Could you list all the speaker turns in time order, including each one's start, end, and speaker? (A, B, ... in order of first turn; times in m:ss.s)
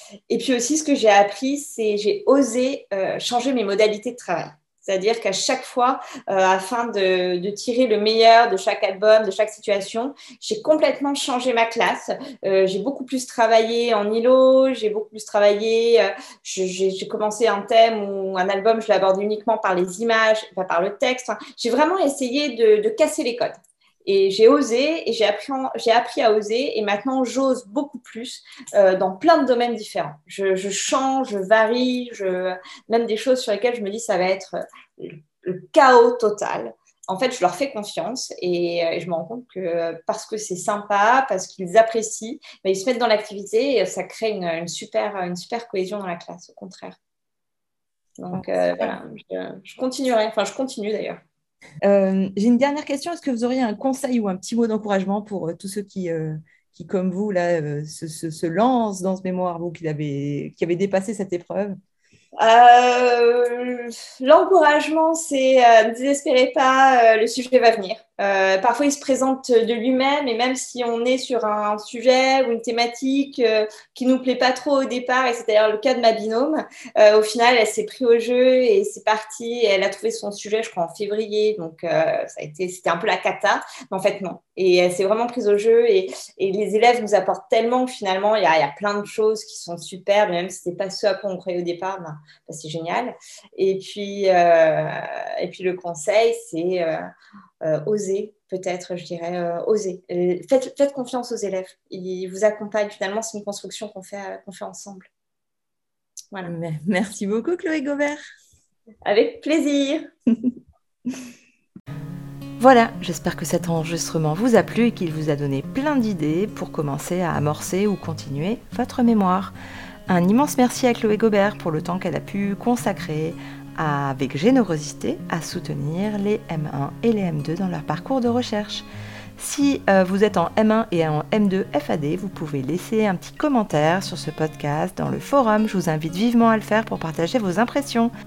0:00.3-0:47.0 A
0:48.2-0:51.2 A
0:48.3-0:49.0 B
0:51.8-1:01.8 B
1:02.4-1:37.0 A
1:37.6-1:45.1 A
1:46.4-1:48.2 B
1:49.0-1:50.1 A
1:52.6-1:59.5 B
2:00.1-2:08.8 B
2:09.4-2:18.1 B